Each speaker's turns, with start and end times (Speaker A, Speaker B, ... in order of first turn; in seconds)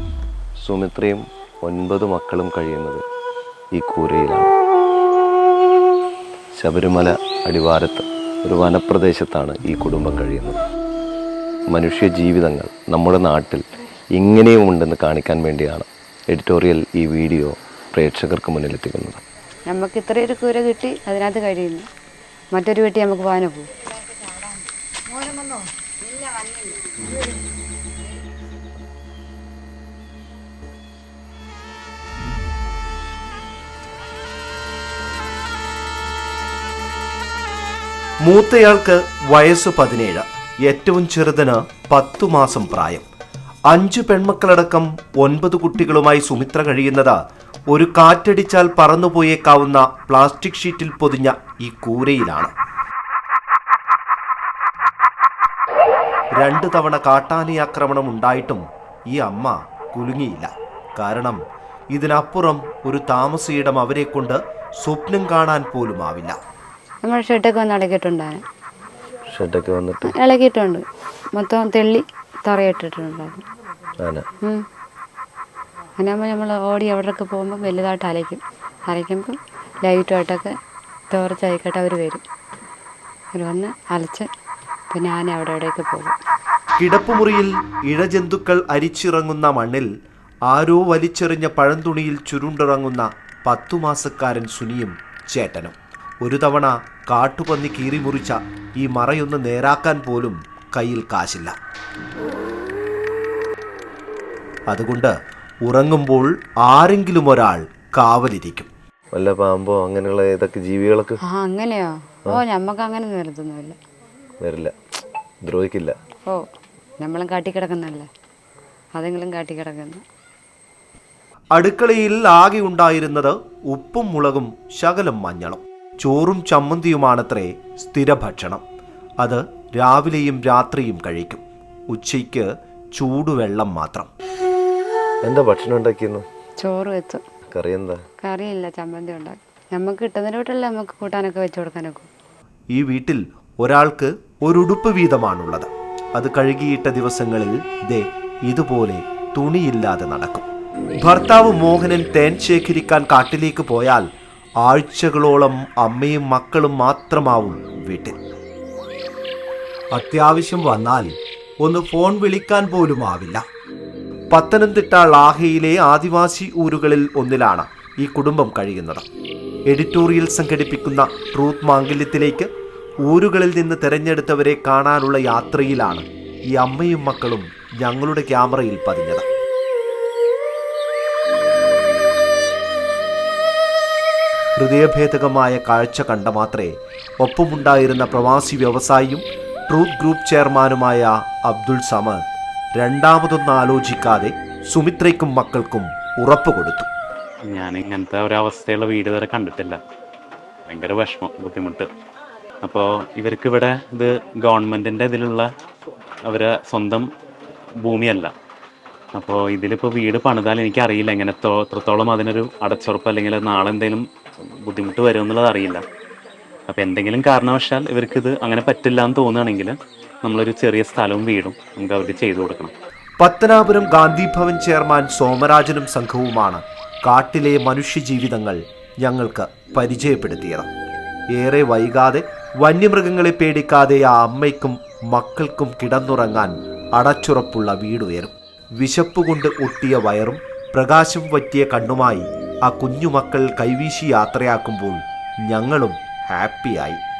Speaker A: 0.6-3.0, 3.7-4.5, 6.6-10.6, 11.7-19.2, 69.3-70.2, 74.0-74.3, 109.1-111.2, 114.4-114.8, 115.4-115.9, 135.2-136.3, 137.5-138.0
Speaker B: 19.7-21.9, 22.5-23.8, 24.3-24.5, 25.1-27.0, 67.0-68.4, 70.1-70.8, 71.3-73.4, 76.0-80.5, 81.1-82.2, 83.3-84.3, 84.9-86.2, 111.3-113.8, 117.0-118.1, 119.0-120.0, 136.6-137.2, 138.2-142.1
Speaker C: 38.2-43.0, 43.7-47.2, 47.7-52.5, 56.4-61.4, 61.9-66.4, 86.8-89.9, 90.5-101.5, 104.7-108.7, 121.5-128.6, 129.2-134.1, 142.7-150.5, 151.0-154.1, 154.6-158.2, 159.9-163.4, 164.3-169.1, 169.7-172.5, 173.0-179.3, 184.6-192.2, 192.8-196.9, 223.2-230.7, 231.3-247.0
Speaker D: 197.5-199.8, 200.7-201.9, 202.6-205.5, 206.3-207.1, 207.8-208.3, 209.2-214.1, 214.6-215.8, 216.7-222.7